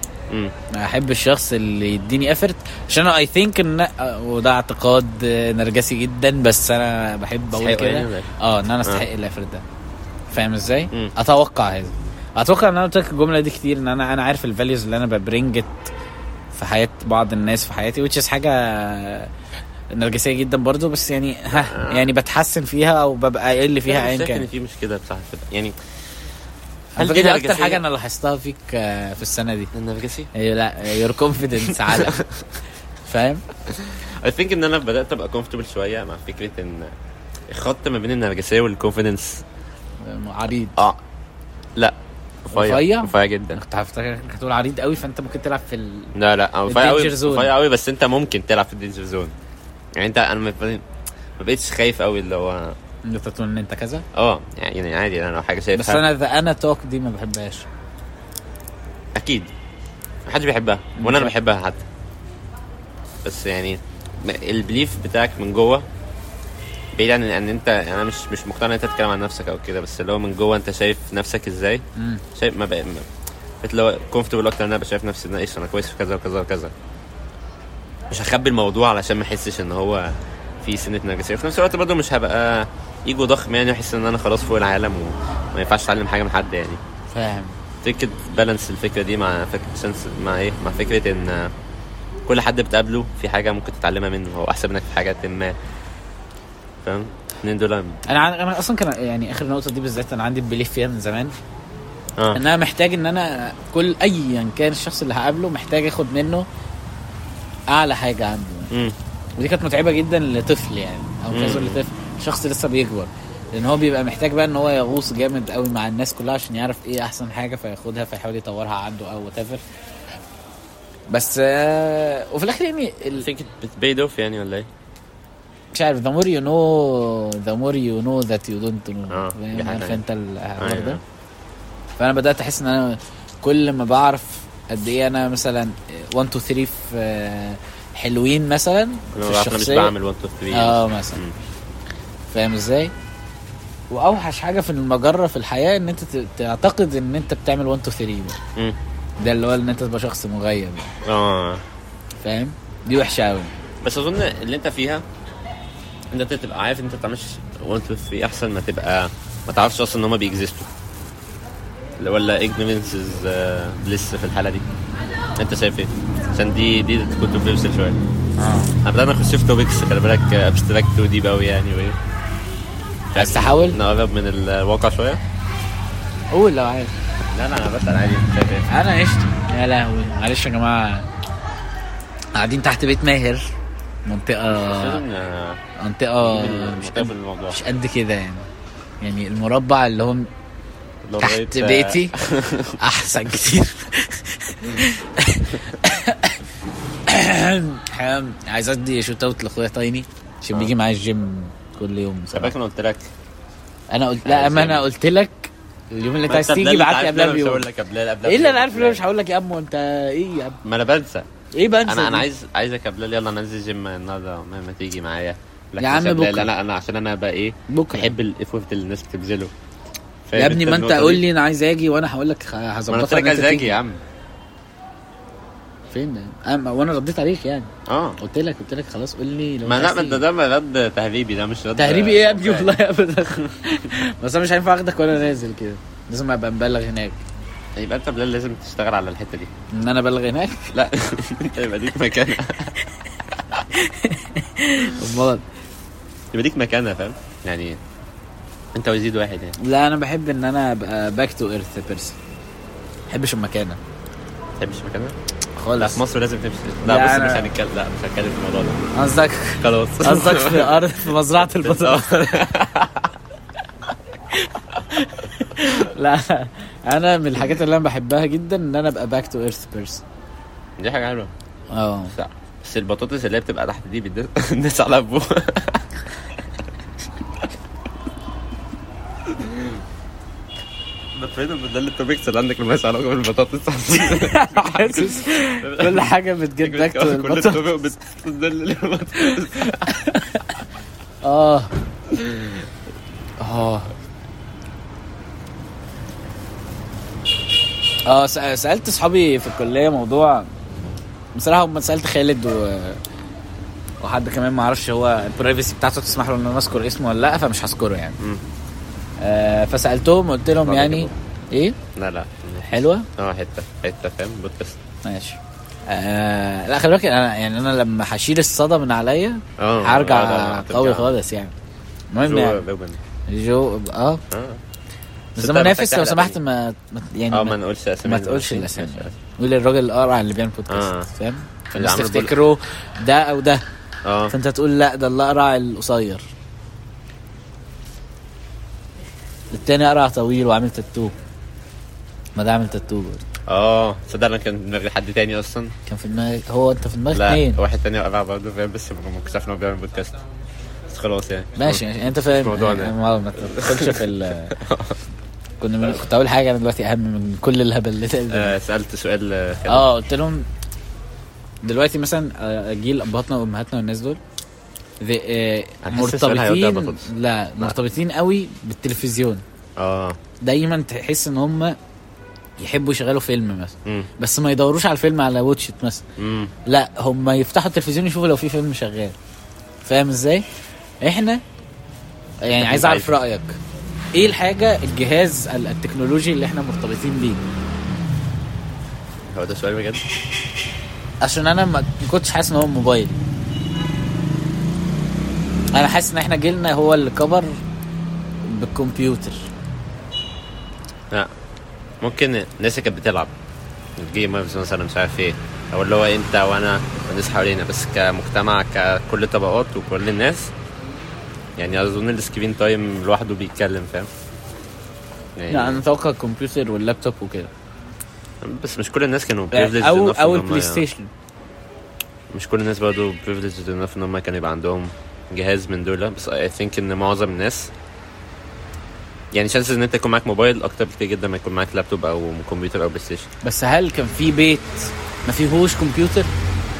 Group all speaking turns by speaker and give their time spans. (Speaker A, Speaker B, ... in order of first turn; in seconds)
Speaker A: 0.3-0.5, 7.5-8.3, 21.5-22.1, 23.9-25.8, 27.0-27.8, 29.7-30.3, 31.6-32.4, 33.7-36.9, 37.5-39.4, 40.8-41.0, 41.8-43.6, 46.1-49.3, 50.0-50.8, 51.4-52.8, 54.1-56.0, 59.1-59.5, 60.3-61.8, 63.2-65.8, 67.0-71.8, 72.3-73.1, 73.6-76.7, 78.1-86.8, 87.8-91.5, 92.3-95.6, 96.8-98.0, 102.2-102.4, 108.7-109.0, 111.3-111.8, 123.2-124.7, 129.1-130.0, 130.6-131.0, 139.1-141.3, 151.0-151.6, 153.8-155.0, 156.1-160.7, 162.0-164.7, 165.4-168.0, 168.8-172.0, 173.1-175.2, 177.3-178.7, 184.5-185.6, 186.2-187.6, 191.0-192.8, 202.3-203.1, 204.2-204.8, 206.3-209.0, 210.6-211.3, 211.8-219.5, 220.3-221.2, 222.9-224.0, 227.9-228.2, 229.6-232.8, 237.8-239.5, 240.7-242.7, 246.3-247.8, 248.7-249.6, 254.6-255.2, 255.8-258.8, 259.6-263.1, 270.8-271.3, 272.1-275.9, 279.2-279.8, 281.1-289.9, 292.1-292.6, 310.6-311.1, 311.9-314.8, 319.6-321.1, 322.2-323.0, 324.3-324.6, 325.4-326.4, 327.3-329.1, 330.7-331.1, 331.7-332.3, 334.0-334.3, 343.5-345.7, 347.1-350.2, 350.9-355.0, 358.3-359.9, 365.8-367.1, 369.8-370.2, 376.2-376.5, 382.6-383.1, 389.3-390.0, 402.0-403.3, 403.9-410.5, 411.6-414.1, 415.4-415.8, 418.4-420.8, 422.3-427.7, 429.3-433.3
Speaker B: 0.7-9.6, 10.3-15.9, 16.5-19.3, 19.9-24.5, 26.9-29.7, 30.3-32.2, 33.0-33.4, 40.0-40.8, 42.5-46.1, 46.7-47.5, 53.0-54.0, 55.7-57.7, 61.0-61.3, 72.0-72.2, 87.1-87.6, 98.1-101.3, 102.3-106.5, 107.7-108.7, 109.4-119.6, 121.1-123.3, 125.7-131.0, 132.0-139.9, 140.5-141.2, 142.3-142.9, 143.9-148.4, 149.2-150.9, 152.2-153.5, 168.4-168.7, 173.2-173.8, 176.3-176.9, 178.7-181.1, 182.3-183.5, 184.1-185.0, 185.8-188.5, 189.0-190.3, 191.2-192.2, 192.8-196.4, 197.1-202.5, 203.9-207.6, 208.2-210.6, 211.5-212.2, 215.8-216.5, 217.7-218.1, 220.3-223.8, 225.9-230.2, 231.8-237.2, 239.7-240.7, 243.6-245.4, 249.6-252.2, 253.1-253.8, 255.6-256.0, 256.8-257.5, 258.9-262.0, 264.3-270.0, 271.7-272.1, 284.0-287.7, 289.6-290.5, 291.2-291.7, 293.4-293.9, 298.1-300.5, 301.3-303.0, 304.0-308.2, 309.2-311.8, 312.6-313.1, 315.0-321.5, 322.1-322.6, 323.3-324.2, 325.3-333.6, 334.3-336.3, 339.5-341.1, 342.4-343.2, 345.9-347.6, 351.6-354.6, 355.6-358.5, 359.7-360.5, 361.6-364.2, 365.0-369.4, 370.4-371.8, 372.6-376.0, 376.6-379.1, 379.8-380.4, 381.0-381.4, 382.4-383.6, 384.1-387.4, 391.2-393.2, 395.7-397.6, 398.4-399.5, 415.5-417.5, 419.5-421.1, 433.4-436.3